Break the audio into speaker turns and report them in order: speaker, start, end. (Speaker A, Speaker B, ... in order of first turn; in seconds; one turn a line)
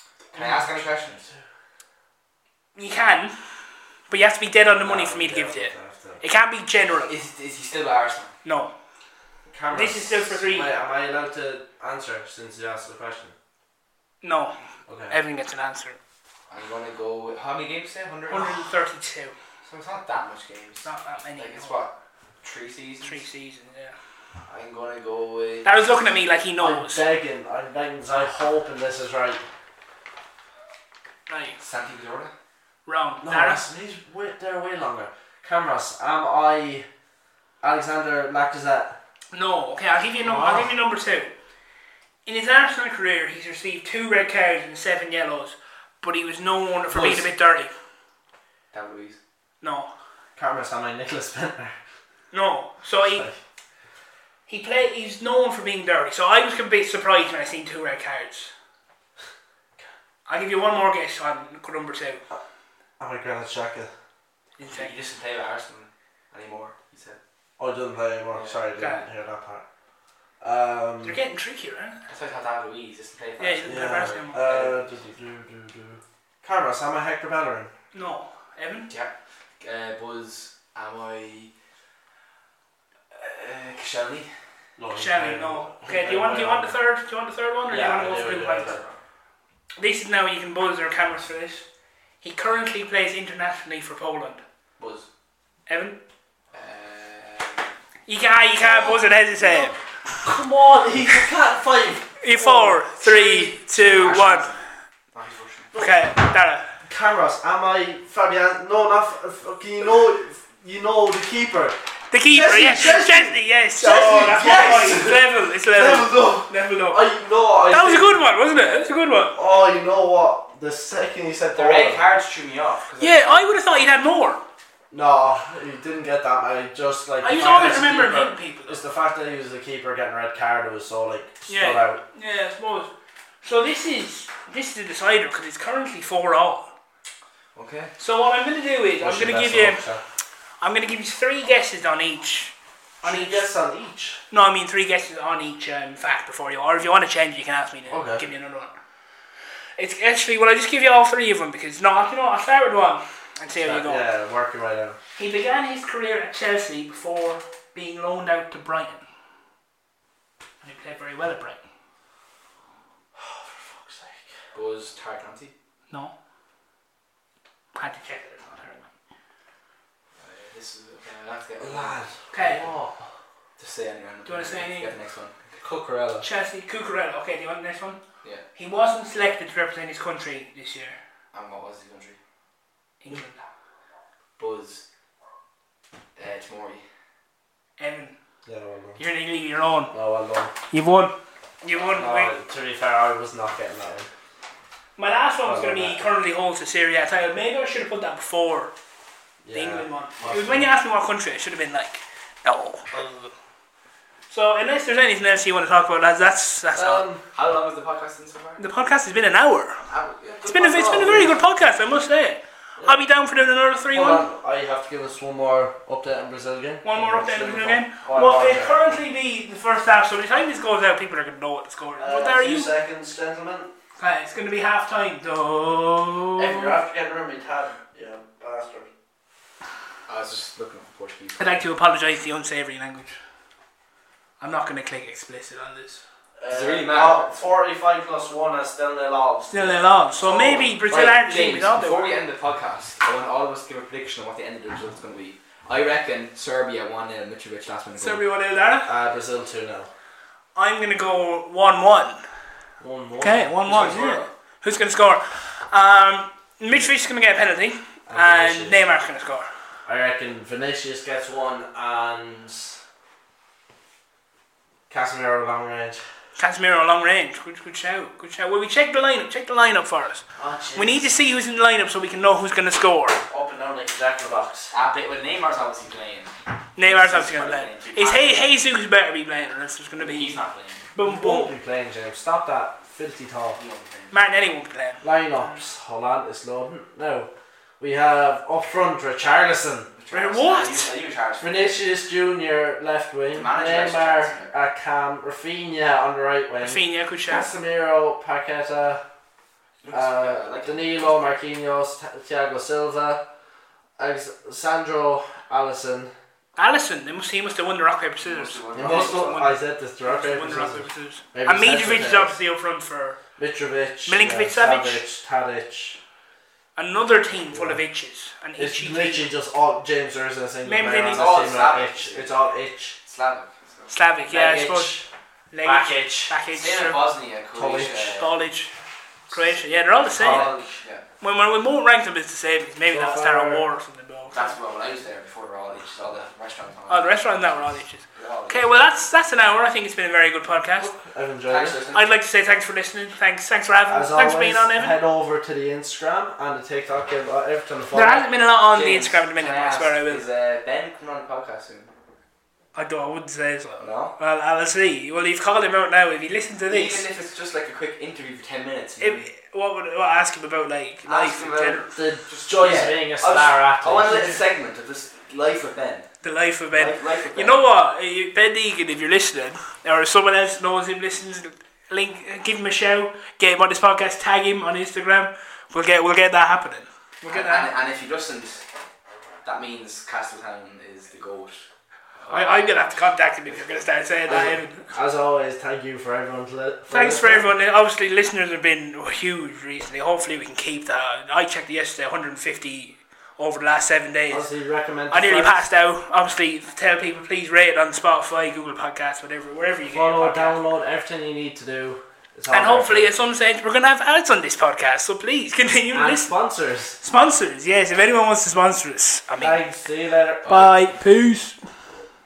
Speaker A: 0.3-1.3
Speaker B: 0.3-1.4
Speaker C: 2.8-3.4
Speaker C: 4.1-7.1
Speaker B: 4.8-6.2
Speaker A: 7.1-8.3
Speaker C: 8.4-8.7
Speaker B: 9.5-13.3
Speaker C: 9.7-10.8
Speaker C: 14.2-14.6
Speaker B: 14.9-15.2
Speaker C: 15.1-16.0
Speaker A: 16.5-18.6
Speaker C: 18.3-19.4
Speaker A: 19.6-23.2
Speaker C: 20.8-21.8
Speaker C: 23.0-23.9
Speaker A: 24.5-25.7
Speaker C: 25.6-27.1
Speaker B: 26.6-29.4
Speaker C: 31.3-31.6
Speaker A: 31.6-32.3
Speaker C: 32.9-33.6
Speaker B: 33.2-36.9
Speaker B: 37.6-39.0
Speaker C: 39.3-41.3
Speaker B: 40.2-40.8
Speaker C: 42.3-47.7
Speaker B: 46.9-47.3
Speaker A: 48.7-49.2
Speaker C: 49.6-49.9
Speaker B: 50.4-51.8
Speaker C: 52.3-53.3
Speaker B: 53.0-53.4
Speaker C: 54.5-58.5
Speaker C: 60.3-62.2
Speaker B: 63.0-63.9
Speaker C: 64.6-65.0
Speaker A: 64.7-67.2
Speaker B: 67.6-69.7
Speaker A: 68.3-68.6
Speaker C: 68.8-69.1
Speaker B: 70.4-71.2
Speaker C: 71.0-72.0
Speaker A: 72.1-75.0
Speaker C: 73.4-74.5
Speaker B: 73.6-77.7
Speaker C: 77.9-78.9
Speaker A: 78.9-81.5
Speaker A: 83.1-84.3
Speaker B: 84.8-86.8
Speaker C: 84.9-88.8
Speaker B: 87.7-88.8
Speaker C: 89.8-91.7
Speaker C: 92.2-94.4
Speaker A: 94.8-95.1
Speaker C: 95.7-96.0
Speaker A: 96.5-97.7
Speaker C: 98.1-99.7
Speaker B: 98.6-103.4
Speaker C: 102.2-104.5
Speaker A: 103.0-105.7
Speaker C: 105.7-106.7
Speaker B: 106.9-122.0
Speaker C: 112.1-117.0
Speaker C: 117.7-119.4
Speaker A: 121.5-123.7
Speaker C: 123.0-124.4
Speaker B: 124.9-132.0
Speaker C: 127.2-128.8
Speaker C: 131.5-132.9
Speaker C: 133.4-136.7
Speaker A: 137.5-137.9
Speaker C: 138.0-139.8
Speaker B: 139.0-140.0
Speaker C: 140.6-143.4
Speaker B: 143.0-144.2
Speaker C: 144.3-148.7
Speaker B: 147.9-148.2
Speaker C: 149.8-154.0
Speaker B: 153.6-155.0
Speaker C: 155.2-159.0
Speaker C: 160.6-161.6
Speaker B: 163.2-164.3
Speaker A: 164.5-165.5
Speaker C: 167.7-168.8
Speaker A: 170.2-172.0
Speaker B: 171.6-173.1
Speaker C: 172.3-172.7
Speaker A: 173.6-176.2
Speaker C: 174.2-174.9
Speaker B: 175.9-176.2
Speaker C: 176.2-178.0
Speaker C: 178.6-181.0
Speaker A: 181.3-182.2
Speaker C: 183.0-183.5
Speaker A: 184.4-184.8
Speaker A: 186.2-186.8
Speaker C: 187.8-188.2
Speaker B: 188.4-189.0
Speaker C: 189.0-189.9
Speaker B: 189.9-190.5
Speaker C: 190.7-192.4
Speaker B: 192.0-194.1
Speaker C: 195.0-198.7
Speaker B: 195.4-196.0
Speaker B: 199.4-200.7
Speaker C: 199.5-203.2
Speaker C: 204.3-207.1
Speaker B: 206.8-207.2
Speaker A: 207.3-208.6
Speaker C: 208.6-209.9
Speaker A: 209.9-211.3
Speaker C: 210.4-214.3
Speaker B: 210.7-211.4
Speaker B: 213.9-218.8
Speaker C: 216.8-222.7
Speaker B: 222.0-223.7
Speaker C: 224.0-226.8
Speaker B: 226.4-228.9
Speaker A: 230.1-231.6
Speaker C: 231.4-233.2
Speaker C: 234.4-236.0
Speaker B: 236.4-240.8
Speaker A: 236.5-237.3
Speaker C: 239.5-242.2
Speaker A: 240.9-248.2
Speaker C: 248.0-248.9
Speaker B: 248.8-249.9
Speaker C: 250.6-252.2
Speaker B: 252.8-253.6
Speaker C: 253.2-259.5
Speaker A: 253.6-254.3
Speaker B: 258.1-258.8
Speaker B: 259.9-262.8
Speaker B: 264.9-266.0
Speaker C: 266.4-273.2
Speaker B: 270.4-271.2
Speaker B: 273.3-274.7
Speaker A: 274.7-278.5
Speaker C: 276.8-280.4
Speaker A: 280.0-280.9
Speaker C: 280.9-281.5
Speaker B: 281.0-283.6
Speaker A: 283.6-284.4
Speaker C: 284.1-285.6
Speaker B: 285.0-289.9
Speaker A: 289.9-291.8
Speaker C: 290.1-290.9
Speaker B: 291.4-299.0
Speaker A: 293.3-294.5
Speaker C: 296.6-297.5
Speaker A: 299.8-301.1
Speaker B: 299.9-303.2
Speaker B: 304.0-306.1
Speaker C: 306.6-313.2
Speaker A: 308.2-309.5
Speaker B: 308.8-312.3
Speaker B: 313.4-316.0
Speaker C: 314.1-315.0
Speaker C: 316.8-319.3
Speaker B: 317.5-317.8
Speaker B: 318.6-323.0
Speaker C: 320.6-321.3
Speaker A: 321.1-322.3
Speaker A: 323.1-323.9
Speaker C: 323.9-325.0
Speaker B: 324.3-325.1
Speaker C: 325.5-327.0
Speaker B: 325.6-326.4
Speaker A: 326.5-328.4
Speaker B: 327.5-328.2
Speaker C: 328.2-328.7
Speaker C: 329.3-330.6
Speaker A: 330.1-331.0
Speaker B: 330.1-330.6
Speaker C: 331.2-334.4
Speaker B: 332.9-333.7
Speaker A: 334.3-339.1
Speaker C: 336.9-340.9
Speaker B: 340.8-341.8
Speaker A: 341.5-342.1
Speaker C: 341.9-345.0
Speaker B: 343.9-348.2
Speaker C: 347.9-350.2
Speaker A: 348.7-351.9
Speaker C: 352.8-357.1
Speaker A: 353.8-354.1
Speaker A: 356.7-359.3
Speaker C: 359.0-361.9
Speaker A: 361.1-366.1
Speaker B: 361.9-364.4
Speaker C: 364.1-364.4
Speaker C: 366.2-377.7
Speaker A: 366.7-367.6
Speaker A: 377.3-378.6
Speaker A: 379.4-381.6
Speaker A: 382.2-383.6
Speaker C: 382.3-384.9
Speaker B: 384.3-387.5
Speaker C: 386.9-394.5
Speaker B: 394.3-395.6
Speaker C: 395.1-400.6
Speaker B: 399.9-403.1
Speaker C: 402.5-406.3
Speaker B: 405.9-407.0
Speaker C: 407.0-409.6
Speaker B: 409.4-410.6
Speaker C: 410.5-411.6
Speaker A: 410.5-410.7